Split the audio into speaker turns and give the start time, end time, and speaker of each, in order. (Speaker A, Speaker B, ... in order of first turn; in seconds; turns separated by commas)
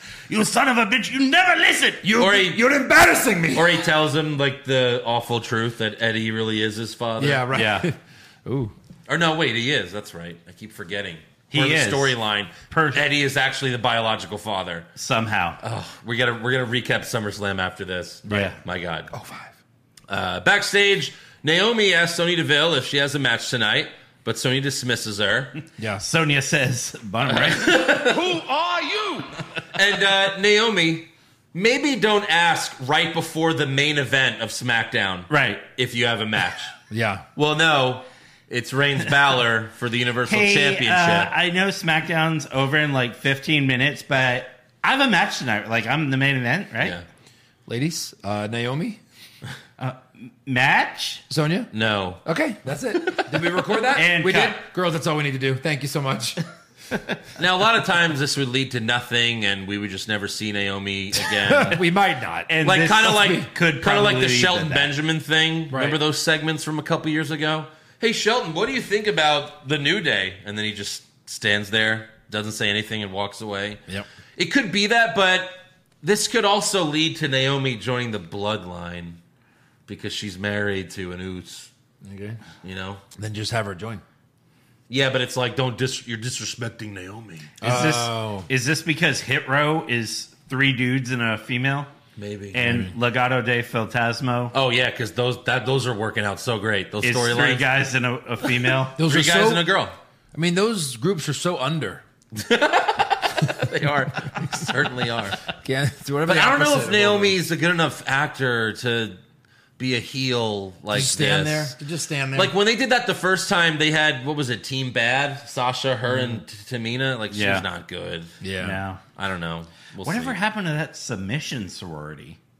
Speaker A: 0.3-2.0, Speaker B: 2.0-3.8, Speaker C: 2.2-2.6, Speaker C: 3.5-7.5, Speaker B: 7.2-8.7, Speaker A: 7.5-7.9, Speaker C: 9.1-14.9, Speaker A: 11.5-12.2, Speaker A: 12.7-13.0, Speaker A: 14.9-15.6, Speaker C: 15.6-19.1, Speaker B: 18.2-18.6, Speaker A: 18.3-18.6, Speaker B: 19.1-19.5, Speaker C: 20.1-25.5, Speaker B: 25.8-26.1, Speaker A: 26.0-27.8, Speaker C: 27.3-28.2, Speaker B: 27.9-29.3, Speaker C: 29.7-36.7, Speaker A: 35.3-35.6, Speaker B: 36.9-37.2, Speaker C: 37.4-41.3, Speaker A: 40.3-47.0, Speaker B: 47.7-49.0, Speaker A: 49.8-51.2, Speaker B: 51.3-51.7, Speaker C: 51.7-52.2, Speaker B: 52.2-56.4, Speaker A: 53.9-54.6, Speaker C: 57.4-61.8, Speaker B: 61.3-63.3, Speaker A: 62.5-64.9, Speaker C: 62.6-73.8, Speaker B: 65.7-66.0, Speaker C: 74.3-79.2, Speaker C: 79.9-81.7, Speaker B: 82.0-82.4, Speaker C: 82.6-83.0, Speaker B: 83.2-84.0, Speaker C: 84.9-87.5, Speaker B: 87.6-88.5, Speaker A: 87.6-91.9, Speaker C: 92.2-92.6, Speaker A: 92.5-94.5, Speaker B: 92.6-92.9, Speaker C: 94.5-97.7, Speaker A: 97.0-99.0, Speaker B: 99.0-99.7, Speaker C: 99.0-99.9, Speaker B: 100.3-102.0, Speaker C: 102.3-105.5, Speaker B: 105.5-107.4, Speaker C: 106.3-109.2, Speaker C: 109.8-111.7, Speaker B: 110.9-112.5, Speaker C: 112.3-118.3, Speaker B: 116.1-116.3, Speaker A: 117.3-117.7, Speaker B: 118.4-118.8, Speaker A: 118.6-119.0, Speaker C: 119.2-120.4, Speaker A: 120.0-122.4